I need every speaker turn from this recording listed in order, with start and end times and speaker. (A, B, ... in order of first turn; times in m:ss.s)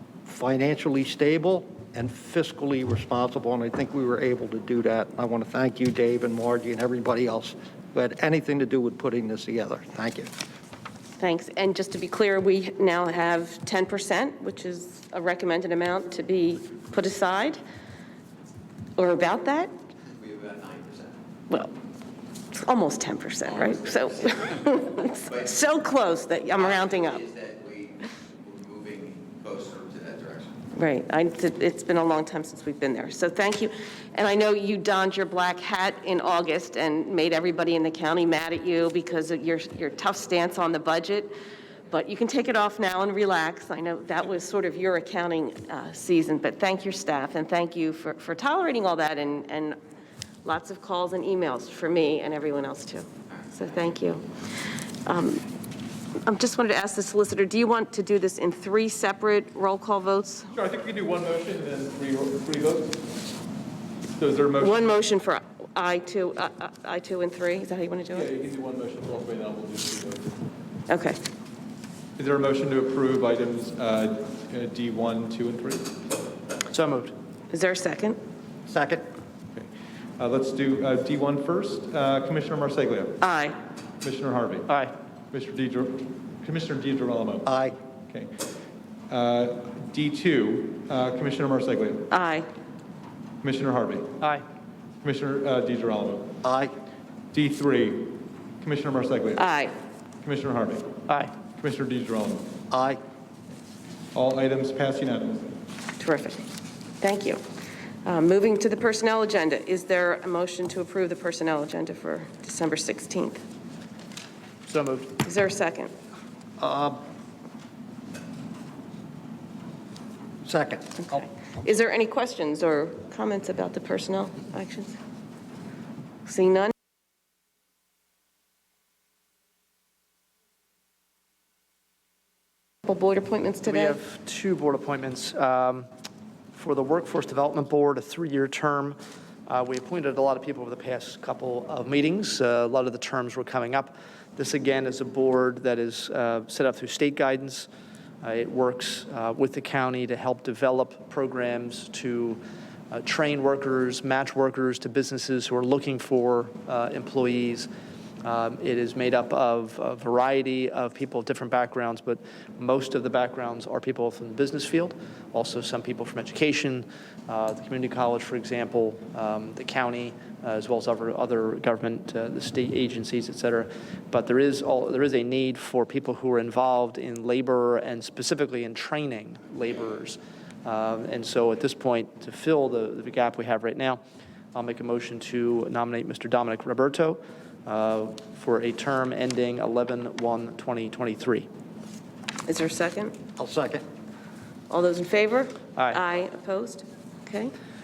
0:00.3-0:10.3 A
0:11.2-0:17.6 B
0:19.0-0:19.7 B
0:20.2-0:21.2 C
0:21.5-0:21.8 B
0:22.5-0:27.4 B
0:27.3-0:30.5 C
0:30.8-0:41.3 B
0:41.9-0:49.8 B
0:50.4-0:54.3 B
0:55.1-0:55.4 B
0:56.2-1:00.5 B
1:00.6-1:02.9 D
1:04.2-1:04.9 D
1:04.6-1:08.3 B
1:08.2-1:10.3 D
1:10.9-1:11.2 B
1:12.2-1:15.9 D
1:16.7-1:17.1 E
1:17.5-1:18.2 B
1:18.7-1:19.0 A
1:20.2-1:23.2 D
1:23.2-1:23.6 B
1:24.0-1:24.7 D
1:24.7-1:24.9 E
1:25.3-1:27.4 D
1:27.5-1:27.8 A
1:29.1-1:32.1 D
1:32.1-1:32.5 B
1:33.4-1:34.1 D
1:35.0-1:36.3 D
1:36.4-1:36.7 A
1:37.3-1:39.4 D
1:39.4-1:39.8 B
1:40.2-1:40.9 D
1:41.1-1:41.3 E
1:41.6-1:42.5 D
1:42.7-1:43.0 A
1:44.1-1:45.5 D
1:46.0-1:46.5 B
1:47.0-1:47.4 B
1:48.0-1:53.4 B
1:54.7-1:55.2 E
1:55.2-1:55.9 B
1:56.6-1:57.0 A
2:00.4-2:01.2 A
2:01.1-2:05.0 B
2:06.2-2:06.7 B
2:12.9-2:14.0 B
2:13.6-2:15.9 E
2:16.5-2:19.0 E
2:19.5-2:27.7 E
2:28.2-2:32.4 E
2:32.9-2:37.7 E
2:38.2-3:04.0 E
3:04.5-3:11.5 E
3:12.5-3:13.2 B
3:13.4-3:13.8 A
3:14.7-3:17.5 B